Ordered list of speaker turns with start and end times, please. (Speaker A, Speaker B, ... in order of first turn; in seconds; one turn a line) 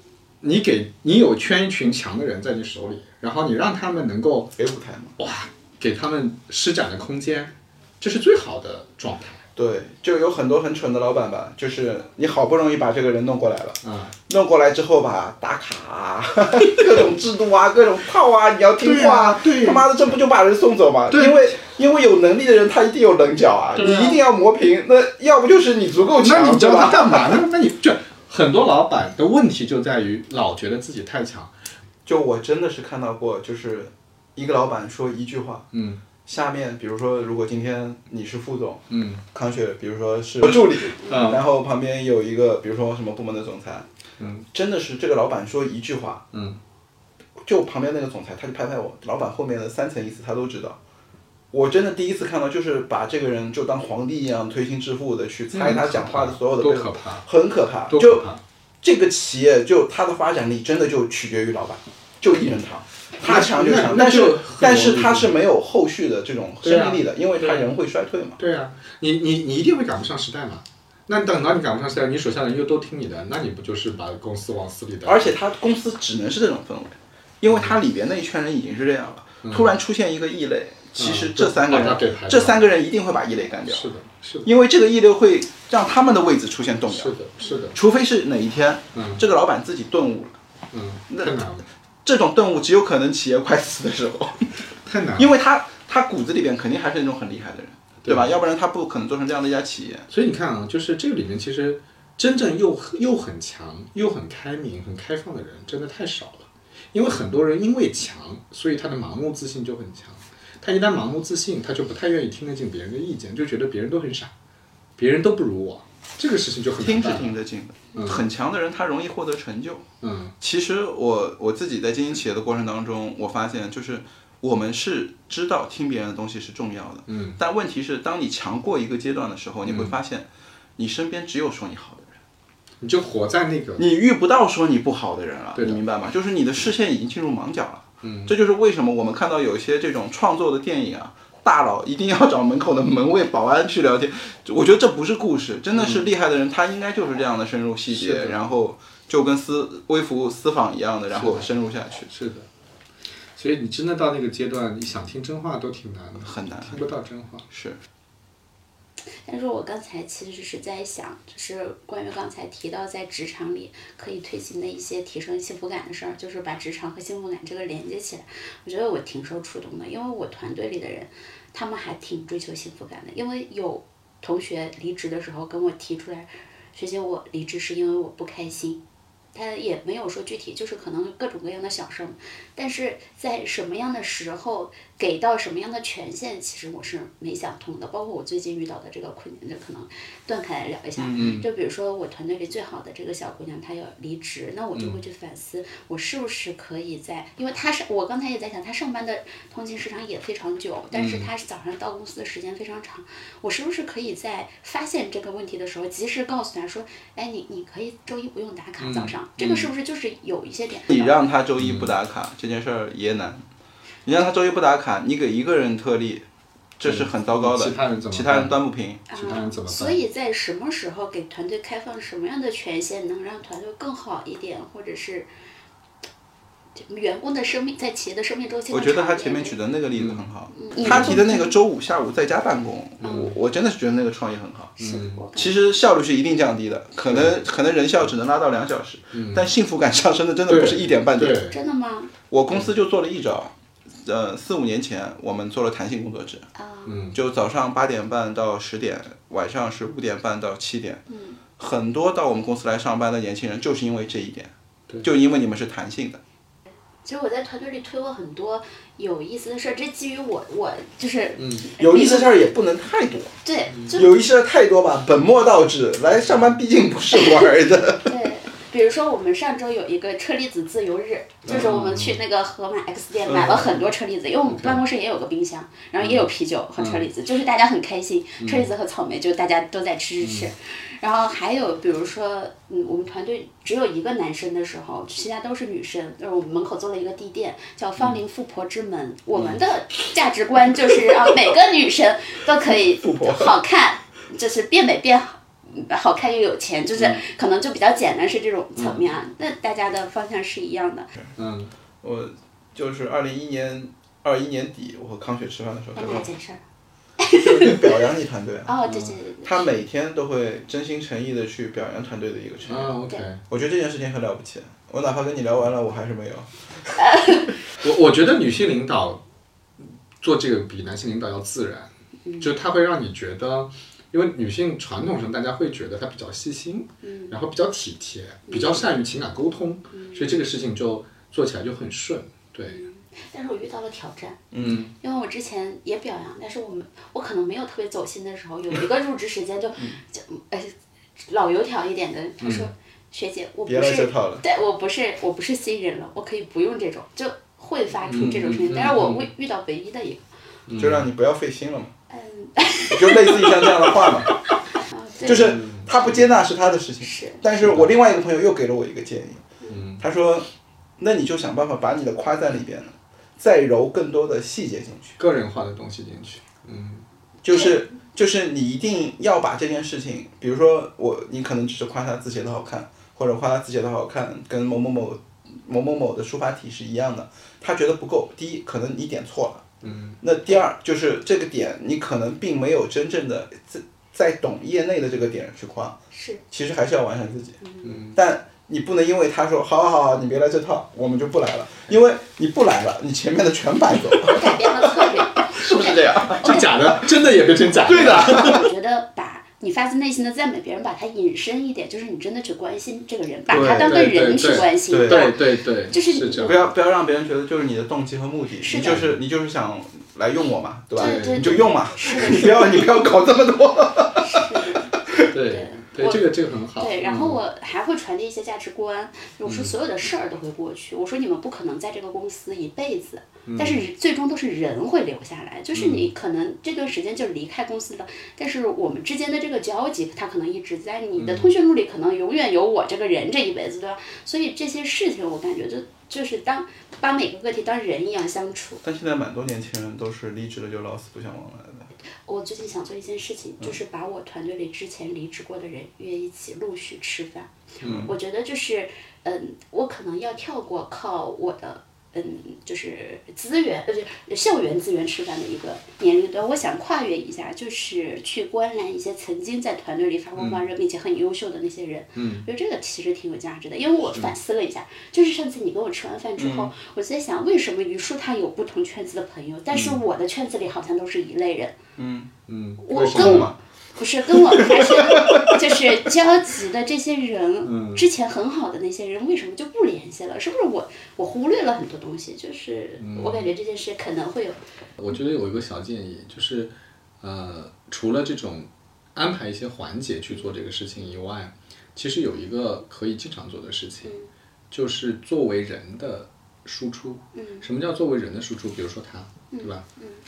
Speaker A: 0.4-4.5
Speaker B: 4.6-5.2
Speaker A: 5.2-9.4
Speaker B: 9.6-27.4
Speaker A: 13.8-14.1
Speaker A: 18.8-19.9
Speaker A: 21.1-21.5
Speaker A: 23.8-24.2
Speaker A: 26.2-31.6
Speaker B: 32.0-35.7
Speaker A: 35.7-36.0
Speaker B: 36.2-43.9
Speaker A: 38.9-39.2
Speaker A: 40.4-41.4
Speaker A: 44.2-44.5
Speaker B: 44.5-46.2
Speaker A: 46.3-46.6
Speaker B: 47.4-50.8
Speaker B: 51.5-58.3
Speaker A: 55.5-57.3
Speaker A: 57.9-58.4
Speaker B: 58.8-68.4
Speaker A: 63.2-65.3
Speaker A: 66.6-67.7
Speaker A: 68.4-75.3
Speaker B: 75.0-83.9
Speaker A: 77.5-77.8
Speaker A: 79.4-79.7
Speaker A: 81.0-82.7
Speaker A: 83.7-84.5
Speaker B: 84.5-87.2
Speaker A: 86.9-87.8
Speaker B: 87.7-90.3
Speaker A: 88.9-89.2
Speaker A: 90.7-91.7
Speaker B: 91.1-91.4
Speaker B: 92.0-94.6
Speaker A: 94.8-95.3
Speaker B: 95.2-100.1
Speaker A: 98.0-98.3
Speaker A: 100.1-114.3
Speaker A: 115.0-117.3
Speaker B: 116.8-119.9
Speaker A: 118.0-118.3
Speaker A: 120.0-120.3
Speaker B: 120.4-132.2
Speaker A: 127.1-127.4
Speaker A: 129.7-129.9
Speaker A: 132.8-133.8
Speaker B: 133.8-152.1
Speaker A: 135.6-135.8
Speaker A: 138.0-138.3
Speaker A: 145.7-146.1
Speaker A: 147.9-148.4
Speaker A: 151.1-151.5
Speaker A: 152.1-152.5
Speaker A: 153.3-157.5
Speaker B: 156.2-156.9
Speaker B: 157.5-157.8
Speaker C: 159.3-178.8
Speaker C: 179.3-211.2
Speaker B: 191.0-191.4
Speaker A: 191.1-191.5
Speaker A: 194.7-195.0
Speaker A: 200.9-201.3
Speaker A: 208.8-209.6
Speaker B: 210.9-213.4
Speaker A: 211.6-211.9
Speaker B: 214.1-216.2
Speaker B: 216.8-219.0
Speaker A: 216.8-218.6
Speaker A: 219.1-220.0
Speaker C: 219.1-225.3
Speaker C: 226.8-229.6
Speaker B: 228.7-234.8
Speaker A: 230.0-230.3
Speaker C: 230.5-231.6
Speaker A: 230.9-231.2
Speaker A: 233.0-233.3
Speaker C: 233.1-233.3
Speaker C: 234.8-235.5
Speaker A: 234.8-235.3
Speaker B: 235.3-241.4
Speaker A: 237.1-237.4
Speaker A: 239.1-239.5
Speaker A: 240.5-241.6
Speaker C: 241.4-242.1
Speaker B: 242.3-246.5
Speaker C: 246.6-247.0
Speaker A: 246.9-247.2
Speaker B: 247.1-251.0
Speaker C: 251.1-251.4
Speaker B: 251.6-256.2
Speaker C: 257.0-262.4
Speaker A: 261.4-261.7
Speaker B: 261.8-263.3
Speaker C: 263.4-264.2
Speaker B: 263.9-268.1
Speaker C: 268.1-301.1
Speaker A: 271.5-272.2
Speaker B: 273.2-273.8
Speaker A: 274.5-274.8
Speaker A: 276.0-277.1
Speaker A: 278.4-278.7
Speaker A: 280.2-280.5
Speaker B: 293.0-293.5
Speaker A: 297.0-297.2
Speaker A: 298.8-299.1
Speaker A: 301.4-301.7
Speaker B: 302.0-306.3
Speaker C: 306.0-306.6
Speaker C: 307.2-307.9
Speaker B: 307.3-308.7
Speaker C: 308.7-309.6
Speaker A: 308.8-309.2
Speaker B: 309.4-312.9
Speaker A: 312.6-313.4
Speaker B: 313.5-316.9
Speaker C: 317.0-317.5
Speaker A: 317.8-319.2
Speaker A: 320.2-332.8
Speaker C: 322.2-322.5
Speaker C: 327.0-327.3
Speaker C: 328.5-328.8
Speaker C: 329.9-330.4
Speaker C: 332.6-340.7
Speaker B: 334.5-334.8
Speaker A: 334.6-334.9
Speaker C: 341.3-350.2
Speaker A: 342.4-342.7
Speaker B: 343.7-344.4
Speaker A: 348.1-349.3
Speaker A: 350.7-351.1
Speaker B: 350.8-351.9
Speaker C: 352.1-353.7
Speaker B: 352.9-354.3
Speaker C: 354.8-355.6
Speaker B: 355.2-359.4
Speaker A: 355.3-356.2
Speaker C: 357.0-357.4
Speaker A: 357.6-357.9
Speaker A: 359.7-360.0
Speaker B: 360.0-360.5
Speaker B: 361.0-365.2
Speaker A: 365.2-367.0
Speaker B: 367.4-386.0
Speaker C: 367.5-367.8
Speaker A: 379.8-380.2
Speaker C: 386.1-386.4
Speaker B: 386.5-387.6
Speaker C: 387.6-388.0
Speaker A: 387.8-388.2
Speaker B: 388.1-394.6
Speaker C: 394.3-397.2
Speaker B: 395.5-398.6
Speaker A: 396.4-398.7
Speaker C: 397.9-406.6
Speaker B: 403.5-404.1
Speaker A: 403.5-406.7
Speaker B: 404.8-405.3
Speaker B: 406.4-414.5
Speaker C: 408.6-409.0
Speaker A: 408.8-409.2
Speaker A: 411.0-411.7
Speaker C: 411.0-412.8
Speaker C: 414.2-416.2
Speaker B: 415.0-415.3
Speaker A: 415.3-417.4
Speaker C: 416.8-438.8
Speaker A: 419.4-419.7
Speaker A: 423.5-423.8
Speaker A: 425.7-426.1
Speaker A: 431.2-431.5
Speaker B: 438.8-441.9
Speaker C: 442.3-471.8
Speaker B: 447.8-448.1
Speaker A: 447.8-448.1
Speaker A: 460.4-460.6
Speaker A: 462.2-462.5
Speaker B: 466.4-466.7
Speaker A: 469.7-470.0
Speaker B: 472.0-472.3
Speaker A: 472.5-473.5
Speaker C: 472.8-484.6
Speaker B: 473.1-473.6
Speaker B: 474.8-475.5
Speaker A: 477.6-478.1
Speaker A: 483.0-483.5
Speaker A: 485.0-494.1
Speaker C: 494.0-494.3
Speaker A: 494.7-499.8
Speaker C: 497.4-497.7
Speaker C: 499.5-500.2